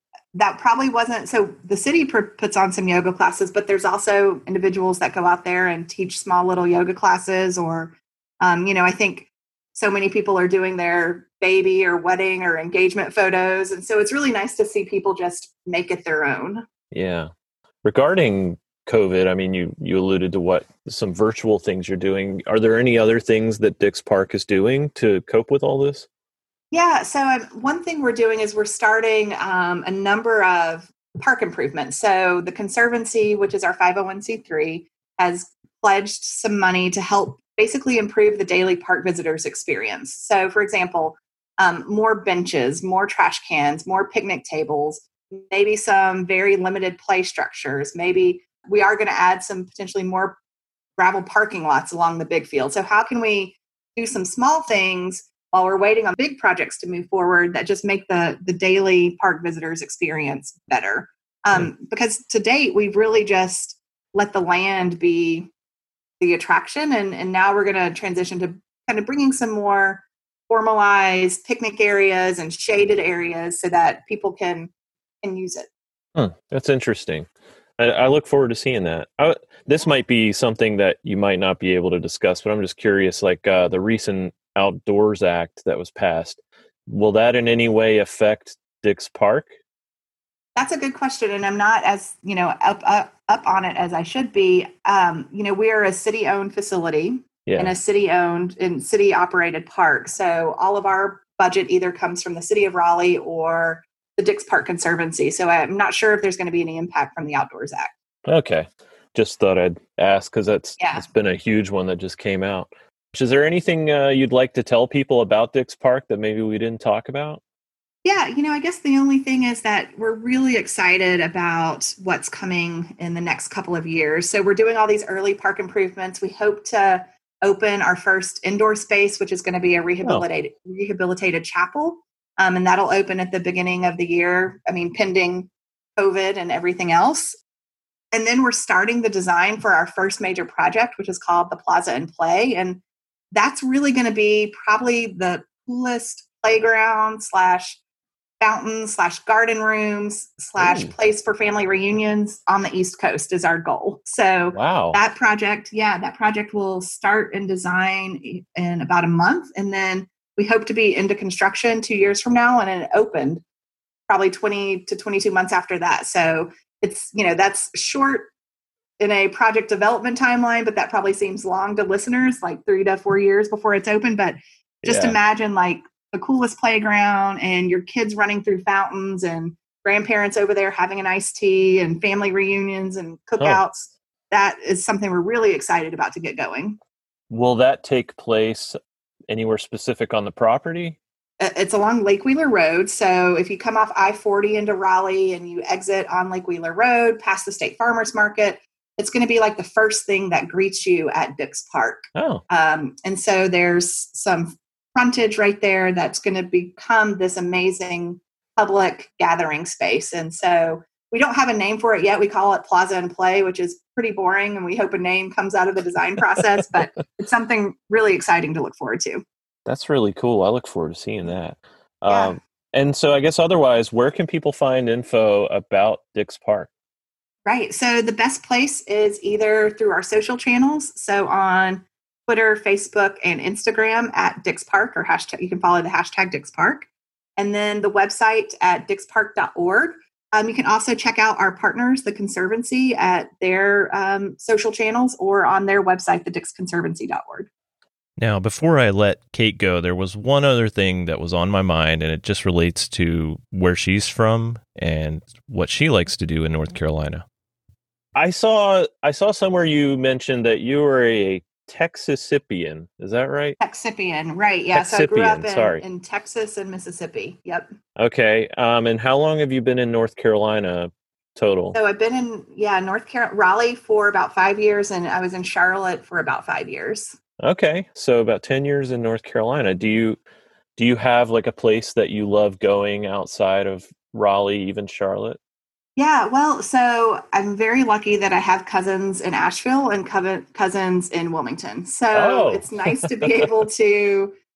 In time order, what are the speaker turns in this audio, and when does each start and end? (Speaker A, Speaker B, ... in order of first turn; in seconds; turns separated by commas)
Speaker A: 0.3-16.6, Speaker B: 16.9-17.3, Speaker B: 17.8-26.1, Speaker A: 26.7-50.4, Speaker A: 51.0-65.5, Speaker A: 66.2-74.7, Speaker A: 75.2-75.7, Speaker B: 76.2-77.3, Speaker B: 77.8-89.5, Speaker A: 90.5-107.9, Speaker B: 97.5-97.7, Speaker B: 108.3-117.4, Speaker A: 110.8-111.1, Speaker A: 118.0-137.4, Speaker B: 130.0-130.3, Speaker A: 138.1-142.8, Speaker A: 143.3-147.8, Speaker A: 148.4-163.4, Speaker B: 150.6-150.9, Speaker B: 154.5-155.0, Speaker A: 164.1-168.3, Speaker A: 169.0-186.8, Speaker B: 174.8-175.2, Speaker B: 187.3-188.8, Speaker B: 189.3-191.0, Speaker A: 191.4-219.2, Speaker B: 202.2-202.4, Speaker B: 219.7-226.7, Speaker A: 222.1-222.4, Speaker A: 227.5-247.5, Speaker C: 248.2-257.2, Speaker B: 258.1-263.6, Speaker A: 263.6-267.7, Speaker B: 264.7-265.9, Speaker B: 268.0-271.8, Speaker A: 271.7-277.2, Speaker B: 277.4-280.2, Speaker B: 280.8-285.4, Speaker A: 286.0-294.3, Speaker B: 292.1-293.5